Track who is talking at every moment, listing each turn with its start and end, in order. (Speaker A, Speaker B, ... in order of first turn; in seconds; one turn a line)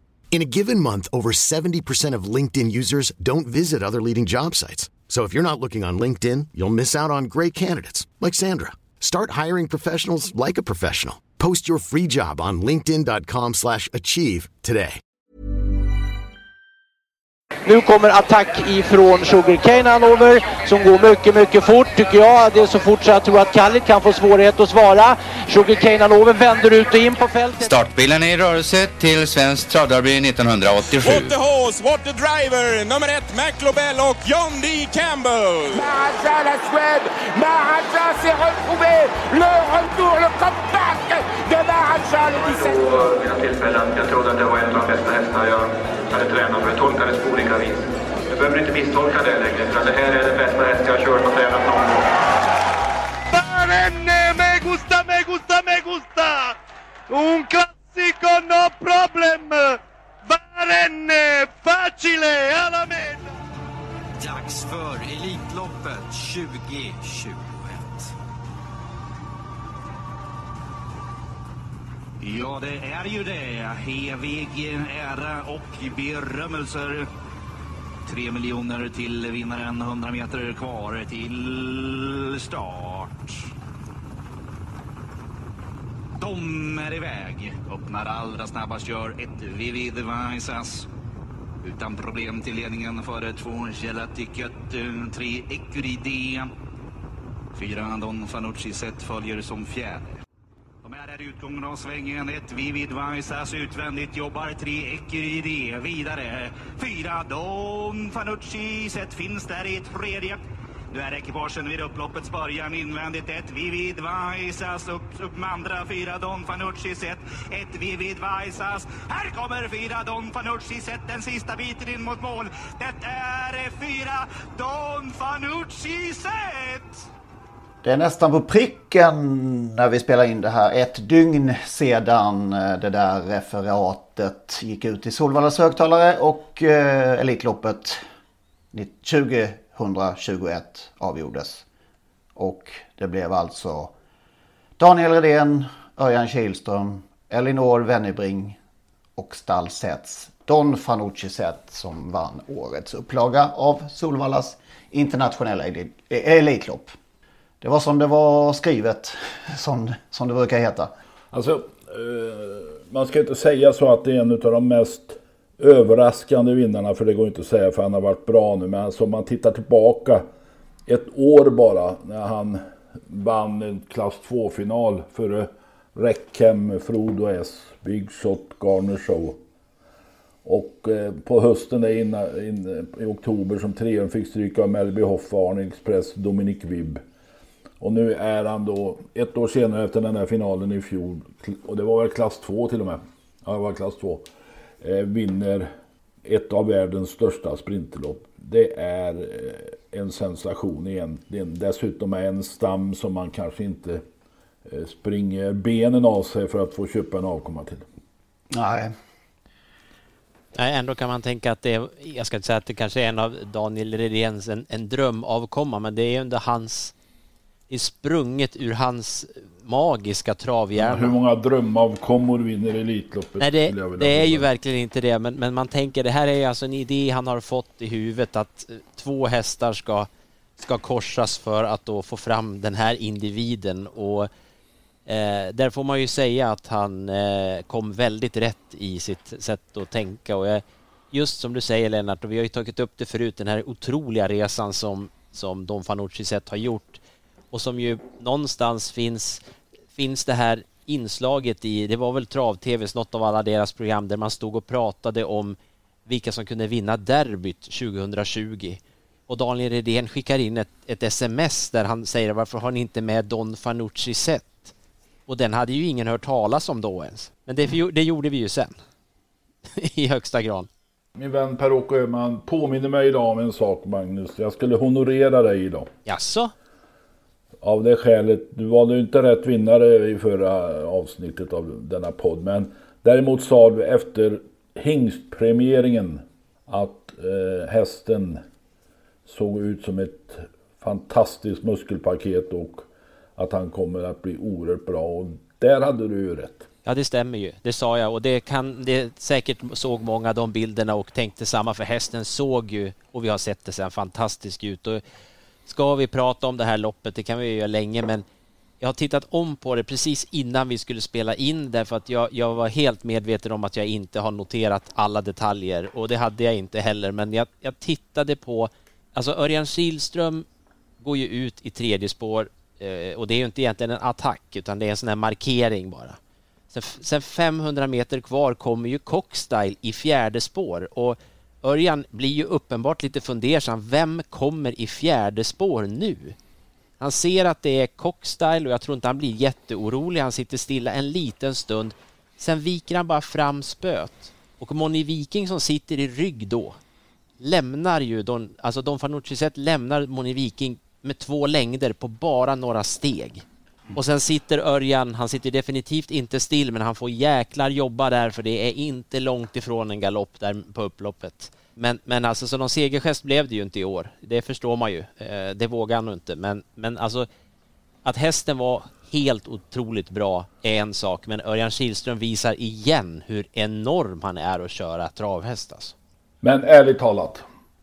Speaker A: 0.3-15.0
Speaker B: 17.7-27.7
Speaker C: 27.6-31.4
Speaker D: 31.0-35.8
Speaker E: 35.7-43.0
Speaker F: 42.4-52.1
Speaker G: 53.3-56.6
Speaker G: 57.1-63.3
Speaker H: 64.2-67.8
Speaker H: 72.2-77.1
Speaker H: 78.1-83.4
Speaker H: 86.2-90.9
Speaker H: 91.6-96.5
Speaker H: 97.5-100.2
Speaker H: 100.8-110.4
Speaker H: 110.9-127.1
Speaker I: 127.8-138.0
Speaker I: 138.7-141.6
Speaker I: 142.4-143.9
Speaker I: 144.8-148.6
Speaker I: 149.2-156.9
Speaker I: 157.6-160.9
Speaker J: 161.3-170.2
Speaker J: 170.9-179.4
Speaker J: 180.4-187.0
Speaker J: 187.8-194.3
Speaker J: 194.8-195.7
Speaker J: 196.2-204.0
Speaker J: 204.7-207.8
Speaker I: 208.5-208.9
Speaker K: 210.6-216.9
Speaker K: 217.7-221.1
Speaker J: 220.8-224.5
Speaker K: 223.4-230.1
Speaker K: 230.6-234.3
Speaker K: 235.1-247.0
Speaker K: 247.5-249.4
Speaker K: 249.9-264.7
Speaker K: 265.3-268.8
Speaker K: 269.8-270.7
Speaker J: 271.1-275.9
Speaker K: 276.1-276.5
Speaker J: 277.6-288.4
Speaker J: 289.3-296.7
Speaker K: 296.9-305.0
Speaker K: 305.7-308.2
Speaker K: 308.8-320.4
Speaker K: 321.0-326.2
Speaker K: 326.7-336.4
Speaker K: 337.0-346.8
Speaker K: 347.4-353.4
Speaker K: 353.9-367.3
Speaker K: 368.0-375.9
Speaker J: 376.4-377.4